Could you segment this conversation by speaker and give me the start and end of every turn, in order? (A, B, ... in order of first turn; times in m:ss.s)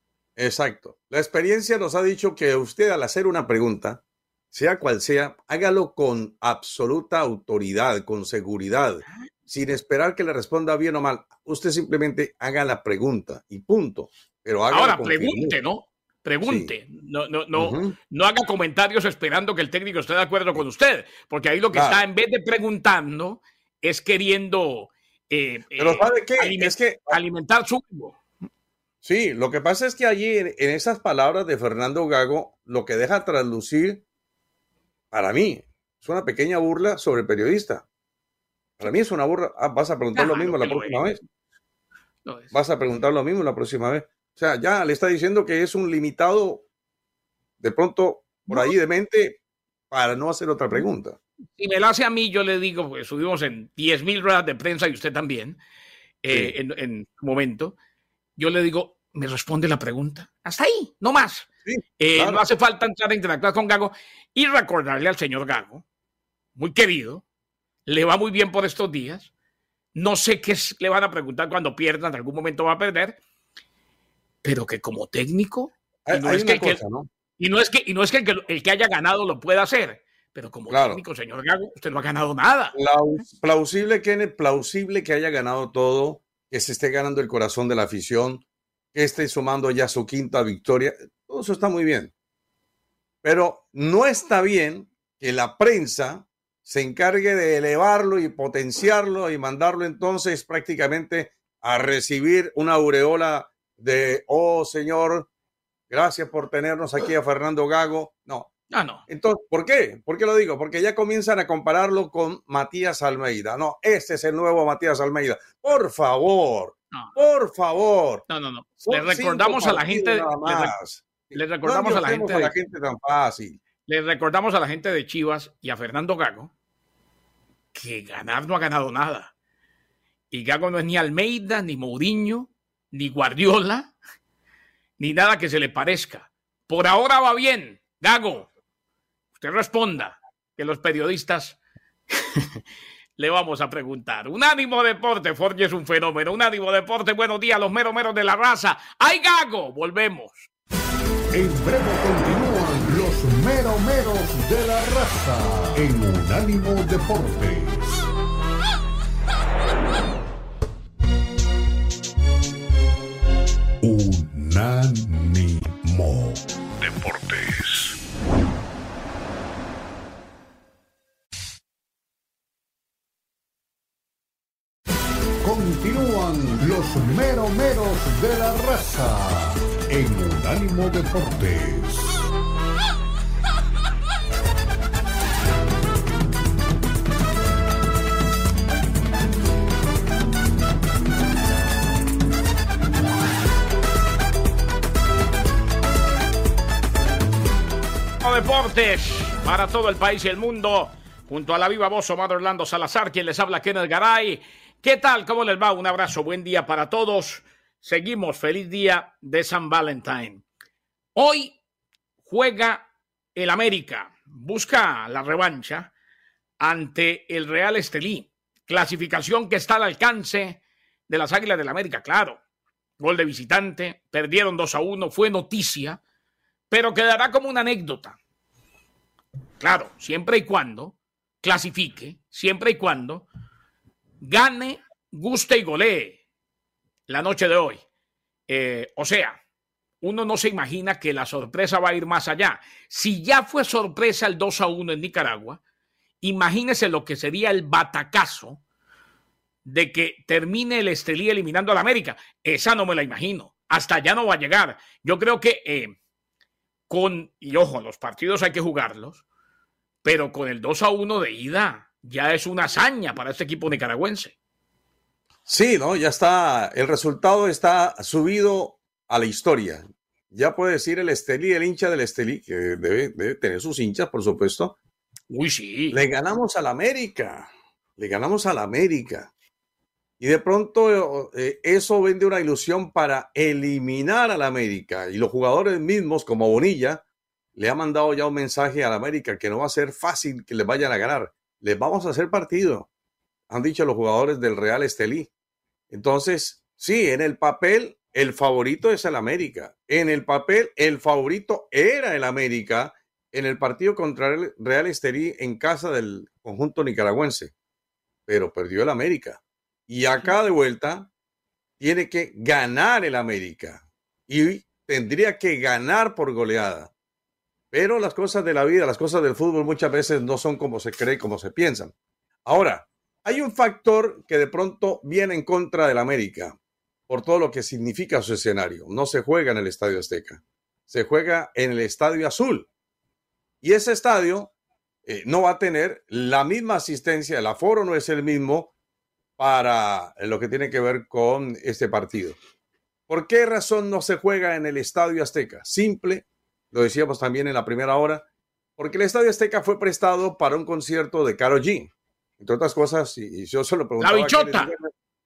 0:00.4-0:04.0 A
0:04.5-0:15.6 A
0:14.7-0:28.2 B
0:16.4-0:16.7 A
0:17.5-0:17.9 A
0:21.7-0:22.0 A
0:25.8-0:27.2 A
0:29.0-0:34.0 A
0:35.1-0:37.8 A
0:38.8-0:41.2 A
0:40.1-0:41.0 B
0:42.2-0:42.5 B
0:42.5-0:46.6 A
0:47.6-0:49.4 A
0:49.9-0:51.2 A
0:51.6-0:55.6 B
0:56.2-0:57.7 B
0:58.4-1:01.5 B
1:01.7-1:02.4 A
1:02.0-1:05.8 B
1:06.6-1:07.2 B
1:07.8-1:09.3 B
1:09.9-1:13.2 B
1:14.4-1:16.8 B
1:16.1-1:17.1 A
1:17.4-1:22.8 B
1:20.7-1:21.0 A
1:22.7-1:28.4 A
1:28.9-1:32.1 A
1:33.2-1:45.3 A
1:45.9-1:48.5 A
1:48.7-1:49.0 B
1:49.1-1:58.2 A
1:56.9-1:57.2 B
1:58.3-2:00.7 B
1:58.8-2:03.6 A
2:01.3-2:02.5 B
2:03.9-2:06.5 B
2:07.7-2:09.3 B
2:10.3-2:13.9 B
2:15.0-2:18.5 B
2:19.4-2:21.6 B
2:22.1-2:22.5 B
2:23.2-2:30.5 B
2:31.3-2:38.0 C
2:43.8-2:46.4 C
2:47.1-2:47.4 C
2:55.4-3:02.3 C
3:18.2-3:30.4 B
3:31.1-3:31.6 B
3:32.2-3:35.9 B
3:36.6-3:42.4 B
3:43.0-3:46.0 B
3:46.7-3:48.2 B
3:49.6-3:53.3 B
3:54.2-3:56.2 B
3:57.1-3:57.8 B
3:58.5-3:59.4 B
4:00.0-4:05.6 B
4:06.2-4:08.6 B
4:09.6-4:15.9 B
4:16.9-4:19.2 B
4:20.0-4:24.3 B
4:25.5-4:34.7 A
4:35.3-4:36.0 B
4:35.9-4:39.3 A
4:40.2-4:47.0 A
4:47.6-4:52.9 A
4:53.5-4:55.3 A
4:55.9-5:07.5 A
5:08.3-5:11.1 A
5:11.8-5:16.9 A
5:17.7-5:21.9 A
5:22.4-5:26.6 A
5:27.1-5:32.7 A
5:33.6-5:34.5 A
5:35.0-5:38.7 A
5:39.4-5:42.4 A
5:43.1-5:48.2 A
5:48.8-5:54.9 A
5:54.0-5:54.7 B